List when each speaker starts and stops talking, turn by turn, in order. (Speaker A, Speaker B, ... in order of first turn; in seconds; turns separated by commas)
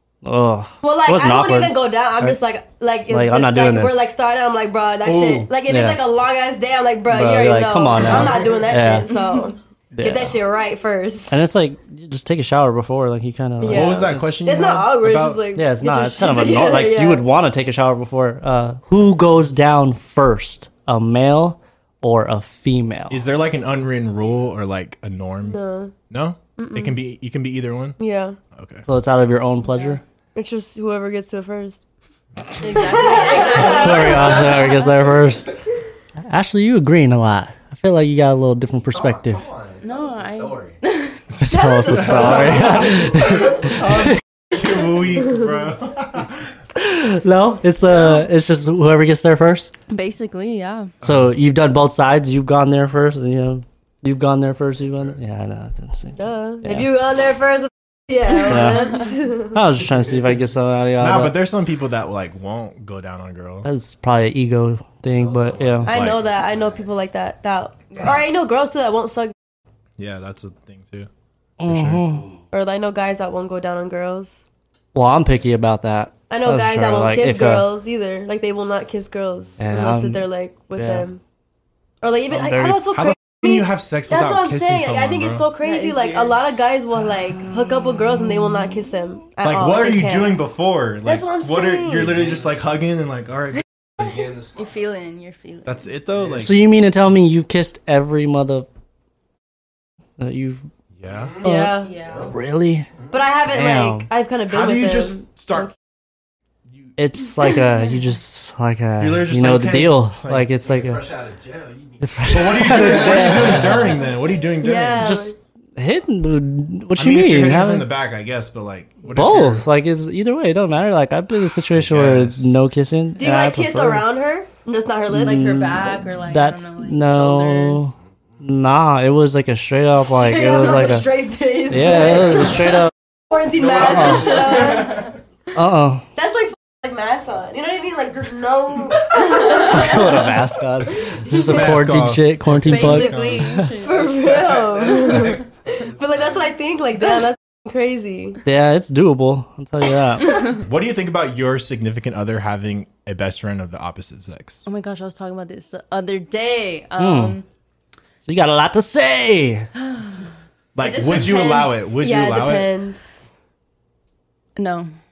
Speaker A: 0.2-2.4, Speaker B: 0.8-11.4, Speaker A: 3.1-4.0, Speaker C: 5.0-5.5, Speaker A: 5.7-6.0, Speaker A: 7.1-9.1, Speaker A: 9.9-10.4, Speaker A: 11.3-14.4, Speaker B: 13.6-17.3, Speaker C: 13.6-15.5, Speaker A: 15.5-23.2, Speaker C: 23.1-28.0, Speaker B: 25.5-25.9, Speaker B: 26.6-27.0, Speaker B: 28.0-28.4, Speaker C: 28.5-28.8, Speaker A: 28.9-30.0, Speaker D: 29.7-30.0, Speaker B: 30.3-31.8, Speaker D: 32.6-34.8, Speaker B: 32.9-34.5, Speaker A: 33.4-35.5, Speaker A: 36.3-39.5, Speaker E: 38.9-40.8, Speaker D: 39.8-41.2, Speaker C: 41.4-46.4, Speaker A: 41.4-44.2, Speaker B: 41.5-42.9, Speaker A: 46.8-49.7, Speaker D: 49.9-50.9, Speaker A: 51.0-56.9, Speaker B: 56.2-59.6, Speaker A: 58.4-61.4, Speaker C: 61.0-63.7, Speaker A: 63.6-66.0, Speaker E: 65.2-66.8, Speaker B: 65.9-69.3, Speaker C: 65.9-66.2, Speaker C: 70.0-71.1, Speaker A: 71.6-72.2, Speaker C: 71.7-72.0, Speaker B: 72.5-74.4, Speaker A: 74.9-77.7, Speaker B: 76.3-81.2, Speaker A: 79.6-81.0, Speaker B: 82.0-90.4, Speaker A: 82.3-82.8, Speaker C: 82.9-85.5, Speaker D: 85.6-86.6, Speaker D: 87.4-88.7, Speaker C: 89.4-94.1, Speaker B: 91.0-92.2, Speaker E: 92.1-92.6, Speaker E: 94.0-94.7, Speaker D: 94.6-95.8, Speaker C: 95.6-96.5, Speaker A: 96.3-98.7, Speaker A: 100.2-100.7, Speaker C: 101.0-101.3, Speaker E: 101.1-101.4, Speaker B: 101.4-102.0, Speaker A: 101.4-102.9, Speaker D: 101.8-102.3, Speaker E: 102.0-102.3, Speaker B: 103.1-105.7, Speaker A: 103.5-104.1, Speaker C: 104.5-105.7, Speaker A: 107.0-111.1, Speaker C: 109.0-110.5, Speaker E: 110.6-113.9, Speaker A: 112.0-114.0, Speaker C: 112.3-115.2, Speaker B: 114.6-115.3, Speaker A: 115.0-117.9, Speaker C: 117.0-119.7, Speaker A: 119.1-124.1, Speaker C: 121.7-122.5, Speaker B: 123.2-126.0, Speaker A: 125.1-131.1, Speaker D: 125.1-127.9, Speaker B: 130.0-135.1, Speaker A: 131.7-132.9, Speaker E: 133.6-135.1, Speaker A: 133.7-134.8, Speaker D: 134.2-135.1, Speaker A: 135.5-136.1, Speaker B: 136.2-140.4, Speaker A: 139.6-143.7, Speaker C: 141.3-143.6, Speaker B: 141.3-141.7, Speaker D: 142.6-144.5, Speaker B: 143.7-148.4, Speaker E: 144.4-145.9, Speaker A: 148.4-150.6, Speaker C: 150.5-154.7, Speaker D: 154.7-157.4, Speaker A: 157.0-157.4, Speaker A: 158.2-159.7, Speaker D: 159.8-160.2, Speaker C: 160.7-162.7, Speaker D: 160.8-161.8, Speaker B: 161.9-163.3, Speaker D: 164.6-164.9